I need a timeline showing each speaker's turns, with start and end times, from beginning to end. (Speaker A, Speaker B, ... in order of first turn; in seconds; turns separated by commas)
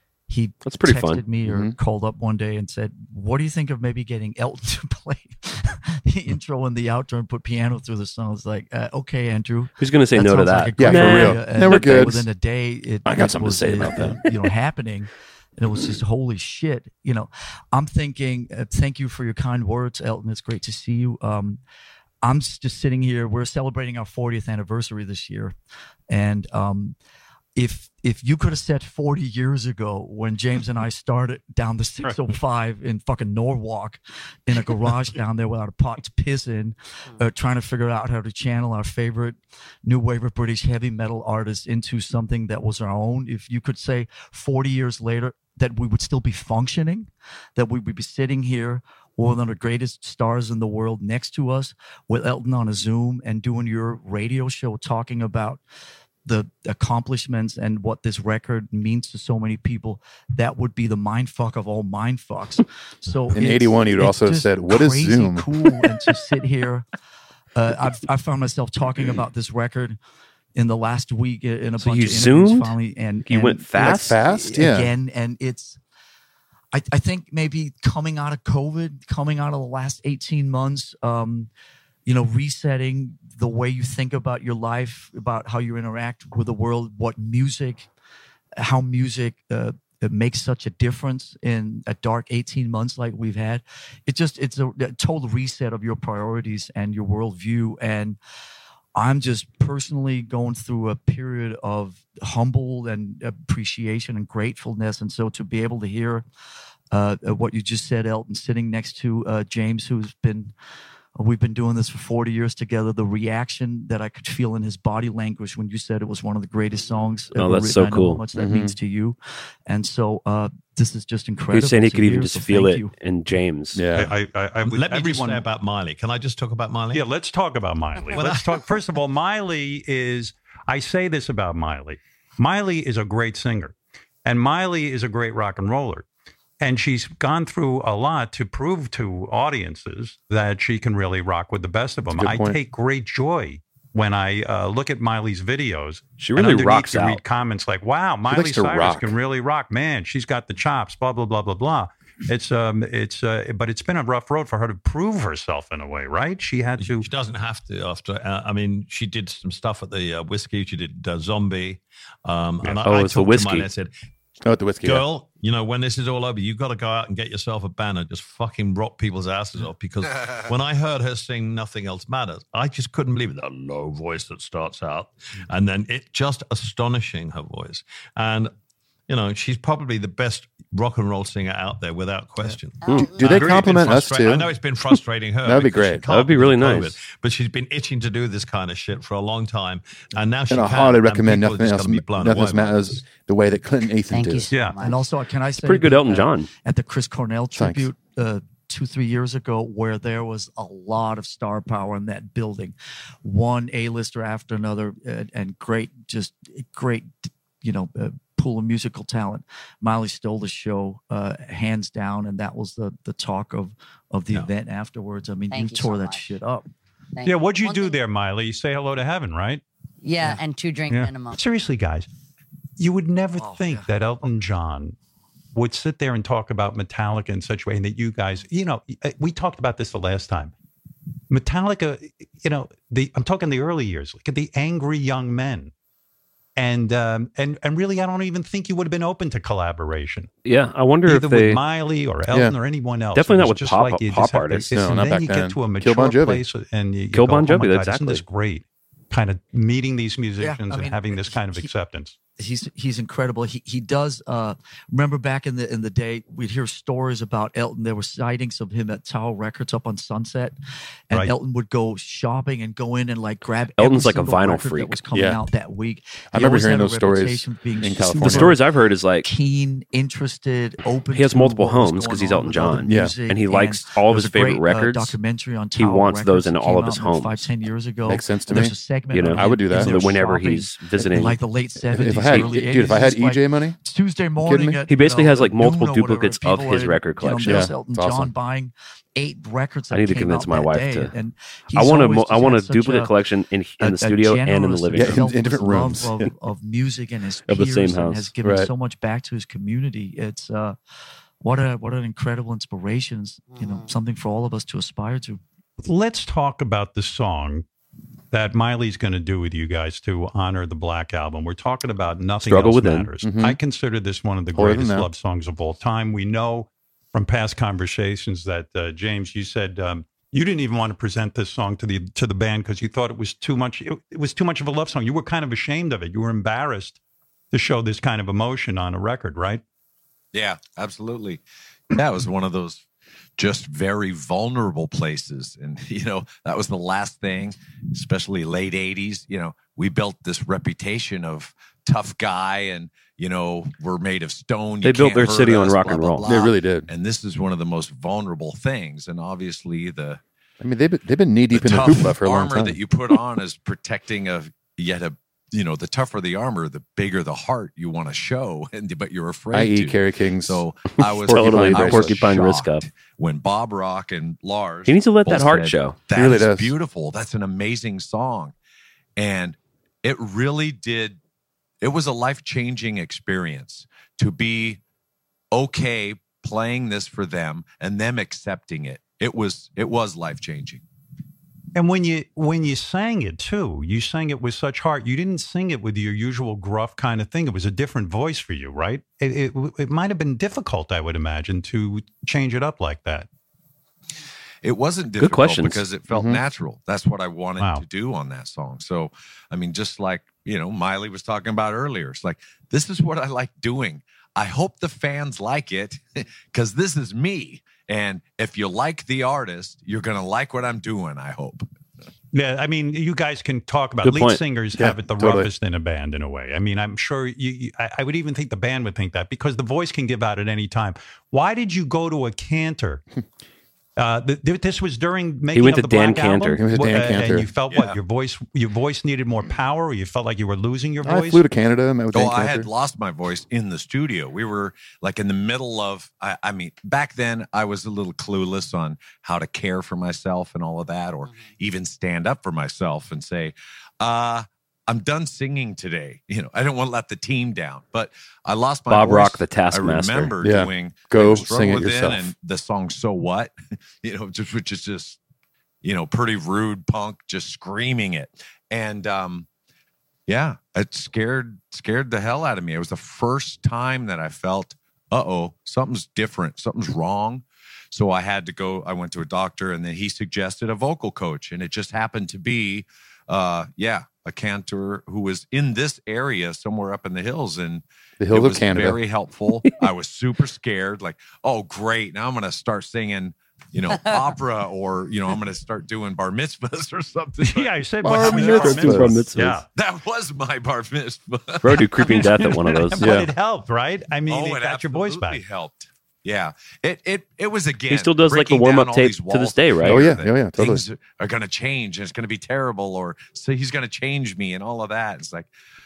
Speaker A: 0.3-21.6, Speaker B: 0.6-1.2, Speaker C: 1.4-1.8, Speaker B: 9.8-12.1, Speaker C: 10.8-12.3, Speaker C: 13.1-14.2, Speaker A: 22.2-25.5, Speaker A: 26.1-26.9, Speaker A: 27.6-55.6, Speaker D: 32.0-32.3, Speaker A: 56.3-66.8, Speaker C: 63.3-65.5, Speaker A: 67.5-70.0, Speaker A: 70.5-75.8, Speaker B: 71.8-74.2, Speaker C: 73.8-74.9, Speaker A: 76.7-81.5, Speaker A: 82.1-87.9, Speaker A: 88.6-98.2, Speaker A: 99.0-106.2, Speaker A: 106.9-110.5, Speaker A: 111.2-122.9, Speaker B: 117.3-118.2, Speaker C: 118.3-118.8, Speaker B: 121.5-123.8, Speaker C: 123.7-124.1, Speaker D: 123.9-125.5, Speaker E: 124.6-127.0, Speaker D: 126.9-136.1, Speaker E: 128.1-128.6, Speaker D: 136.6-157.1, Speaker C: 142.1-142.6, Speaker B: 146.2-147.2, Speaker C: 148.3-149.1, Speaker E: 156.8-163.9, Speaker B: 162.8-163.7, Speaker C: 164.4-165.1, Speaker E: 164.8-178.5, Speaker E: 179.1-193.0, Speaker F: 182.8-183.3, Speaker C: 183.0-184.5, Speaker C: 185.4-186.0, Speaker B: 186.1-186.9, Speaker C: 190.5-194.5, Speaker F: 194.1-195.0, Speaker D: 194.5-194.8, Speaker A: 194.8-216.7, Speaker B: 195.6-196.5, Speaker C: 197.6-197.9, Speaker F: 215.5-216.3, Speaker F: 217.2-218.0, Speaker D: 217.3-219.6, Speaker F: 220.0-221.4, Speaker D: 220.9-222.1, Speaker D: 222.8-224.9, Speaker A: 223.4-223.9, Speaker D: 225.6-230.5, Speaker D: 231.3-235.7, Speaker D: 236.6-240.3, Speaker B: 240.4-241.6, Speaker D: 241.1-252.2, Speaker C: 242.3-242.6, Speaker B: 243.1-244.7, Speaker C: 244.7-246.4, Speaker B: 247.1-248.2, Speaker A: 250.4-251.7, Speaker A: 252.4-260.6, Speaker A: 261.1-268.6, Speaker B: 263.8-265.0, Speaker C: 265.1-265.4, Speaker C: 266.3-268.6, Speaker B: 268.2-269.3, Speaker A: 269.2-293.1, Speaker B: 271.1-275.2, Speaker C: 272.9-273.2, Speaker B: 275.8-277.5, Speaker C: 278.1-278.8, Speaker B: 279.1-281.4, Speaker C: 279.4-280.1, Speaker C: 281.9-283.8, Speaker B: 282.2-282.6, Speaker C: 284.4-284.8, Speaker B: 284.9-287.7, Speaker C: 287.4-288.3, Speaker B: 289.9-291.1, Speaker B: 291.7-295.4, Speaker A: 293.8-300.8, Speaker C: 294.9-296.2, Speaker B: 297.5-298.3, Speaker C: 298.4-298.7, Speaker A: 301.4-305.4, Speaker D: 305.8-307.6, Speaker D: 308.3-327.0, Speaker B: 312.4-313.1, Speaker C: 313.2-313.6, Speaker C: 314.5-315.1, Speaker D: 327.5-329.6, Speaker G: 330.3-331.4, Speaker G: 331.9-332.8, Speaker G: 333.4-350.2, Speaker B: 344.8-346.3, Speaker C: 346.2-346.9, Speaker C: 350.6-352.8, Speaker G: 351.5-368.5, Speaker C: 359.5-360.6, Speaker B: 361.2-362.8, Speaker C: 361.3-362.2, Speaker B: 364.9-366.0, Speaker C: 366.1-366.7, Speaker G: 369.2-371.2, Speaker G: 371.8-374.8, Speaker G: 375.5-380.8, Speaker D: 381.8-393.3, Speaker G: 394.6-411.6, Speaker B: 395.2-395.8, Speaker C: 396.1-396.4, Speaker D: 397.6-397.9, Speaker D: 412.3-423.0, Speaker B: 414.0-414.4, Speaker C: 414.8-415.5, Speaker D: 424.0-431.4, Speaker B: 425.5-426.6, Speaker C: 426.6-427.5, Speaker G: 427.7-428.0, Speaker C: 431.0-432.7, Speaker G: 432.1-455.2, Speaker B: 448.9-450.3, Speaker C: 450.4-452.3, Speaker G: 455.8-459.5, Speaker G: 460.3-488.7, Speaker C: 478.2-479.0, Speaker D: 487.4-489.7, Speaker C: 488.0-489.2, Speaker B: 488.2-489.6, Speaker G: 489.8-491.8, Speaker B: 491.6-493.1, Speaker D: 492.0-495.4, Speaker C: 493.0-493.3, Speaker G: 494.3-505.5, Speaker B: 497.9-500.1, Speaker C: 499.8-500.8